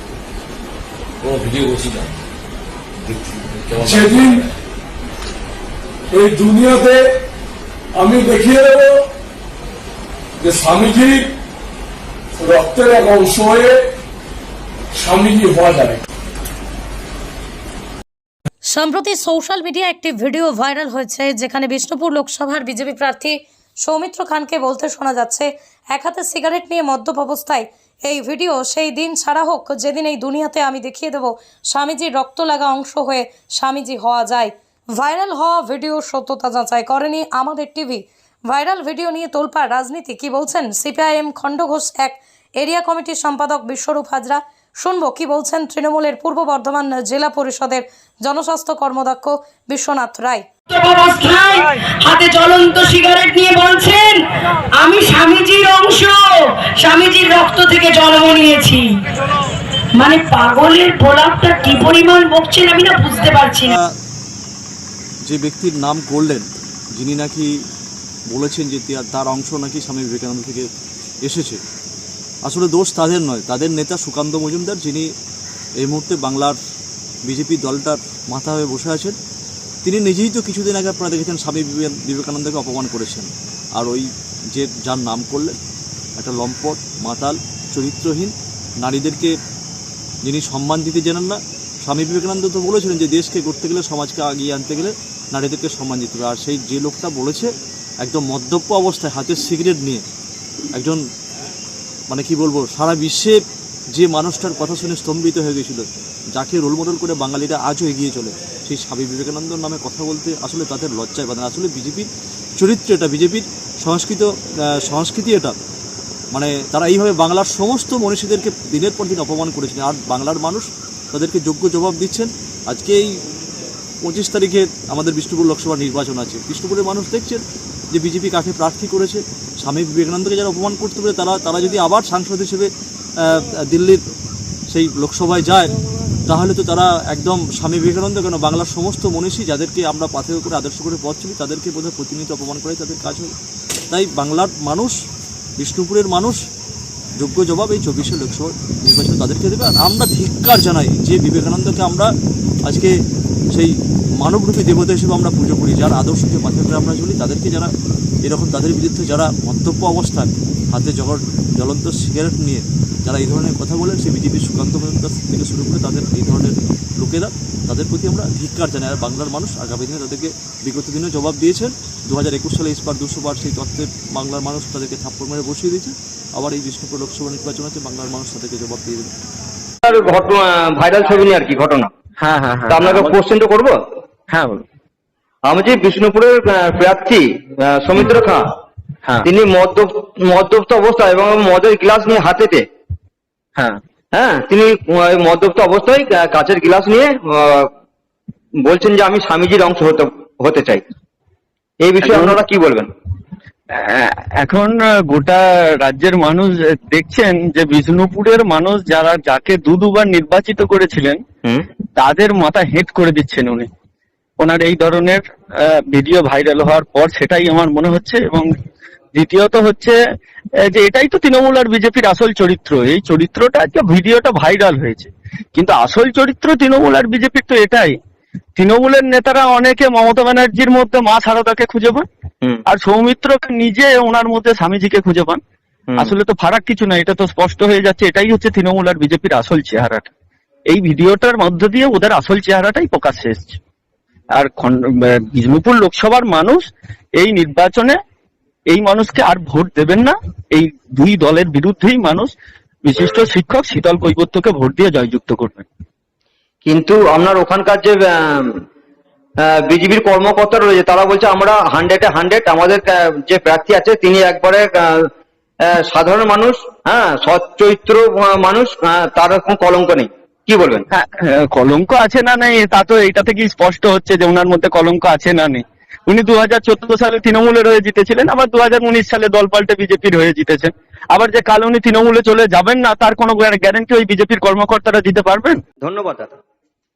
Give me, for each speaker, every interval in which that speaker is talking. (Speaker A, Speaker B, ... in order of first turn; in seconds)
Speaker A: 1.2-2.2, 3.0-4.3
Speaker B: 3.8-4.5, 6.1-7.0, 8.0-8.9, 10.4-11.2, 12.4-13.8, 14.9-16.0
Speaker C: 18.6-50.5
Speaker D: 50.7-54.2, 54.7-58.9, 59.9-63.8
Speaker E: 63.7-63.9, 65.2-67.5, 68.3-70.7, 71.2-71.6, 72.5-75.1, 75.8-76.5, 77.2-79.2, 79.8-85.6, 86.2-89.3, 90.2-100.0, 100.7-101.0, 102.1-103.4, 103.9-115.5, 116.3-123.2, 124.0-132.7, 133.2-134.0, 134.7-135.8, 136.3-143.3, 143.9-144.9, 145.6-146.4, 147.2-152.1, 152.7-153.0, 153.5-157.7, 158.2-179.1
Speaker F: 179.8-181.9, 182.7-183.8, 185.4-188.6, 189.2-192.7, 194.1-197.7, 198.6-200.8, 201.8-202.9, 256.6-258.6, 259.4-265.1, 265.7-270.8, 285.8-286.4
Speaker G: 182.2-183.2, 184.3-184.6, 202.0-202.4, 203.7-211.2, 212.0-213.7, 214.4-215.2, 215.9-218.5, 219.1-219.9, 220.6-227.9, 228.6-232.1, 232.7-235.4, 236.0-240.1, 240.7-243.6, 244.4-246.7, 247.2-248.0, 248.7-252.3, 252.8-255.7, 270.9-285.6